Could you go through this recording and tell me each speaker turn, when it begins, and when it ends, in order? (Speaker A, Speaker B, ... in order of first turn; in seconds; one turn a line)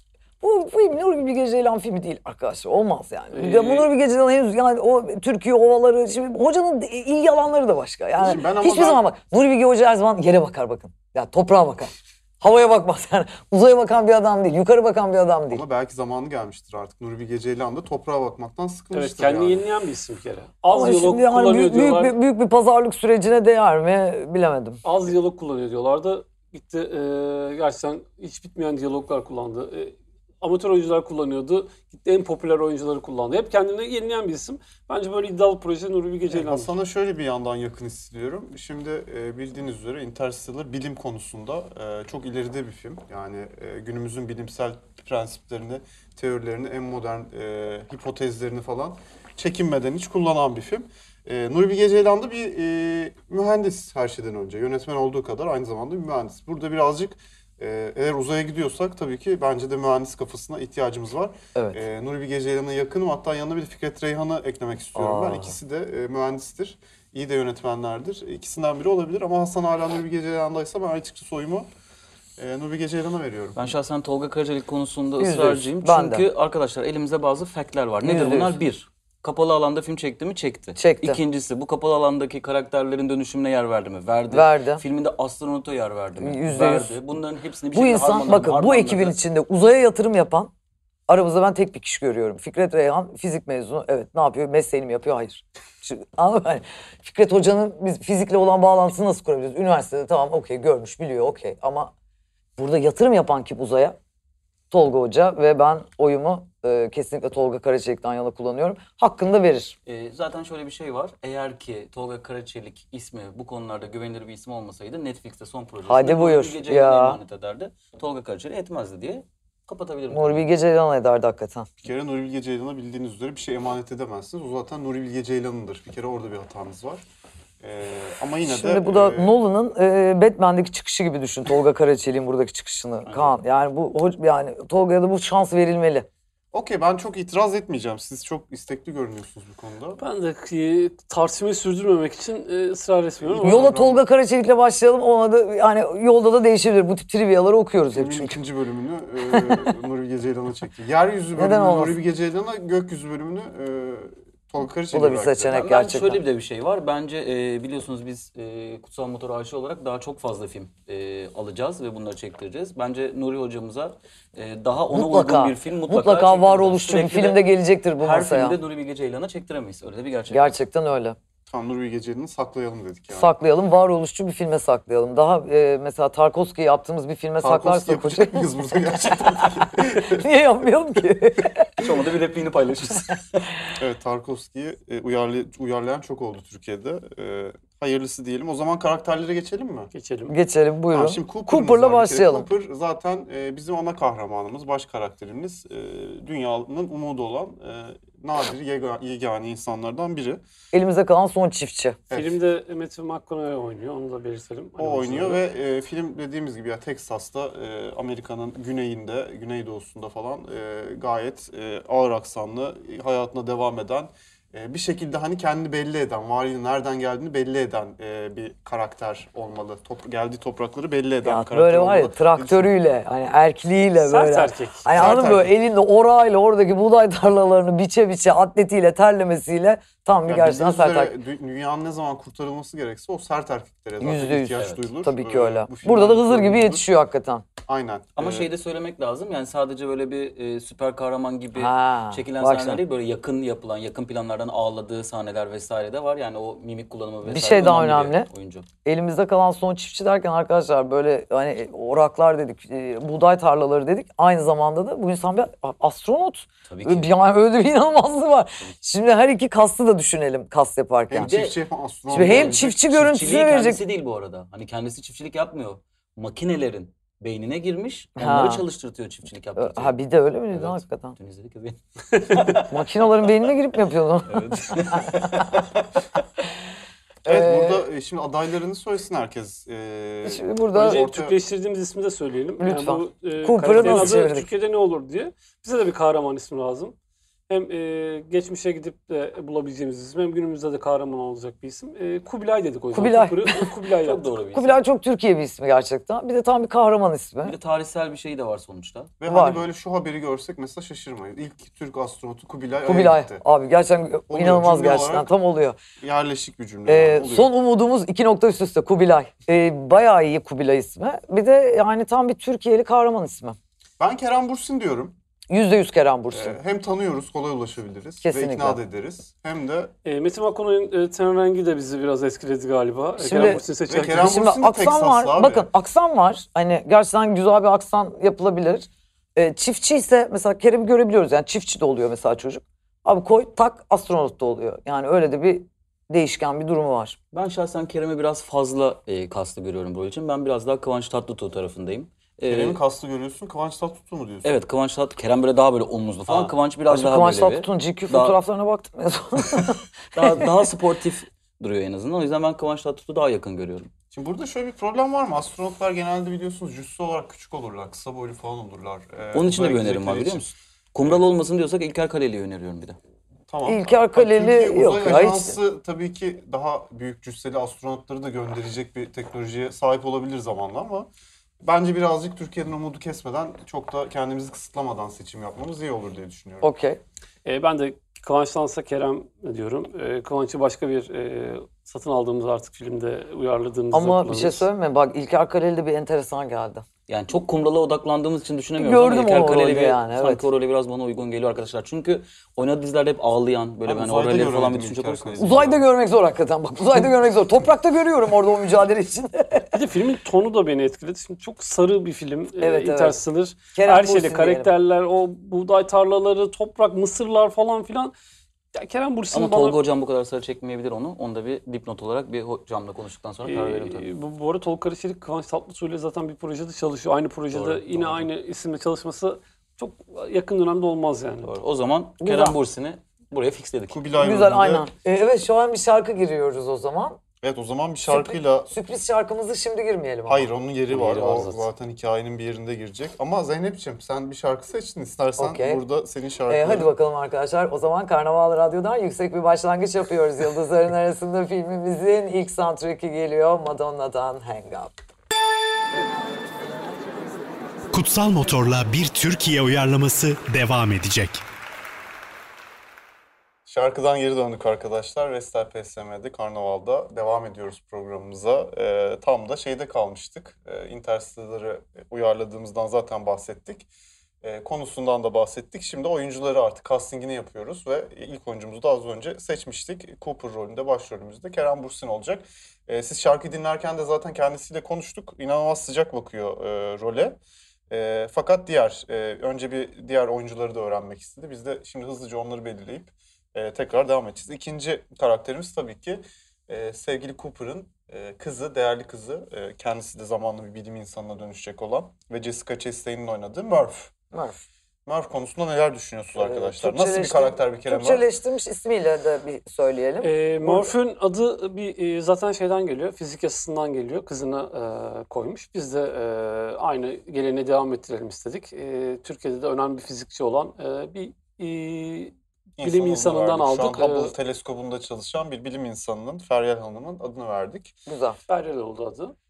Speaker A: 0.4-15.6
Speaker B: 3.3-3.9
Speaker C: 8.2-9.0
Speaker C: 15.5-19.6
Speaker B: 18.9-22.1
Speaker A: 20.7-24.8
Speaker B: 24.8-36.7
Speaker C: 36.3-71.7
Speaker A: 61.5-61.8
Speaker A: 64.9-65.5
Speaker C: 72.4-73.6
Speaker D: 73.5-89.2
Speaker A: 75.2-76.2
Speaker A: 78.0-78.6
Speaker A: 80.8-81.2
Speaker A: 84.3-84.8
Speaker A: 86.2-87.0
Speaker A: 87.7-90.5
Speaker A: 91.1-101.9
Speaker A: 102.6-104.0
Speaker A: 104.7-109.8
Speaker D: 109.9-120.4
Speaker A: 115.9-117.2
Speaker A: 120.1-121.7
Speaker C: 121.8-127.0
Speaker C: 127.6-129.3
Speaker A: 128.4-136.1
Speaker D: 133.1-133.4
Speaker C: 136.5-140.0
Speaker B: 140.0-143.7
Speaker C: 143.2-144.0
Speaker A: 143.4-148.4
Speaker C: 147.9-155.6
Speaker A: 151.4-152.0
Speaker A: 154.9-156.2
Speaker D: 155.5-167.5
Speaker A: 164.9-168.6
Speaker D: 168.0-170.5
Speaker A: 170.3-171.2
Speaker C: 171.5-173.3
Speaker A: 173.1-178.5
Speaker C: 177.4-180.3
Speaker A: 179.8-181.7
Speaker D: 181.8-183.4
Speaker C: 183.8-189.9
Speaker B: 189.9-190.3
Speaker A: 190.3-192.5
Speaker C: 190.9-200.4
Speaker A: 200.7-202.0
Speaker C: 202.1-202.4
Speaker B: 202.1-205.4
Speaker C: 204.8-222.7
Speaker A: 221.2-231.1
Speaker B: 224.0-224.9
Speaker C: 224.9-225.5
Speaker C: 230.2-236.9
Speaker A: 234.0-237.4
Speaker D: 234.6-234.9
Speaker C: 237.7-238.5
Speaker D: 238.2-248.7
Speaker A: 241.5-242.8
Speaker A: 247.2-248.3
Speaker A: 248.8-261.3
Speaker D: 256.7-257.1
Speaker C: 261.1-262.8
Speaker D: 261.2-261.6
Speaker D: 262.1-269.9
Speaker A: 262.1-263.8
Speaker A: 268.1-268.6
Speaker A: 269.6-271.1
Speaker D: 270.5-272.7
Speaker A: 272.6-275.6
Speaker D: 274.3-275.7
Speaker A: 277.2-277.8
Speaker C: 277.2-281.4
Speaker A: 280.2-281.0
Speaker B: 280.8-286.9
Speaker A: 282.6-284.5
Speaker B: 287.5-294.2
Speaker A: 292.9-293.7
Speaker D: 294.0-294.8
Speaker A: 294.5-297.5
Speaker D: 297.4-299.1
Speaker C: 299.2-303.4
Speaker A: 299.2-299.6
Speaker A: 302.8-305.8
Speaker C: 304.3-305.3
Speaker C: 306.0-307.5
Speaker A: 306.9-313.6
Speaker C: 314.0-315.1
Speaker A: 315.5-316.6
Speaker C: 316.3-319.9
Speaker A: 318.2-318.8
Speaker B: 320.0-324.3
Speaker A: 323.2-337.2
Speaker C: 323.4-325.7
Speaker D: 337.3-342.8
Speaker C: 342.5-344.6
Speaker D: 344.4-348.4
Speaker C: 346.3-346.5
Speaker A: 346.9-350.4
Speaker D: 350.1-353.9
Speaker C: 354.1-360.4
Speaker D: 359.3-363.0
Speaker C: 363.5-371.1
Speaker A: 363.6-365.6
Speaker C: 371.6-376.7
Speaker A: 376.6-377.0
Speaker B: 377.4-384.6
Speaker A: 383.9-386.9
Speaker D: 387.1-395.7
Speaker A: 388.8-390.4
Speaker C: 393.9-395.8
Speaker A: 395.4-399.8
Speaker B: 399.7-408.1
Speaker A: 402.6-403.2
Speaker A: 403.7-404.7
Speaker B: 408.8-409.8
Speaker D: 409.3-414.1
Speaker B: 413.4-421.5
Speaker D: 417.5-418.3
Speaker D: 421.4-424.0
Speaker A: 422.2-422.6
Speaker C: 423.9-424.9
Speaker A: 424.2-427.2
Speaker C: 427.4-428.7
Speaker A: 428.1-430.5
Speaker C: 430.3-436.9
Speaker B: 430.9-431.6
Speaker A: 435.4-435.8
Speaker A: 436.5-444.9
Speaker E: 447.9-451.4
Speaker C: 453.6-463.9
Speaker C: 464.4-477.4
Speaker C: 477.9-494.1
Speaker A: 494.3-494.6
Speaker C: 495.1-498.2
Speaker A: 496.4-500.9
Speaker B: 500.2-514.3
Speaker C: 512.8-517.9
Speaker A: 518.1-518.4
Speaker B: 518.5-519.4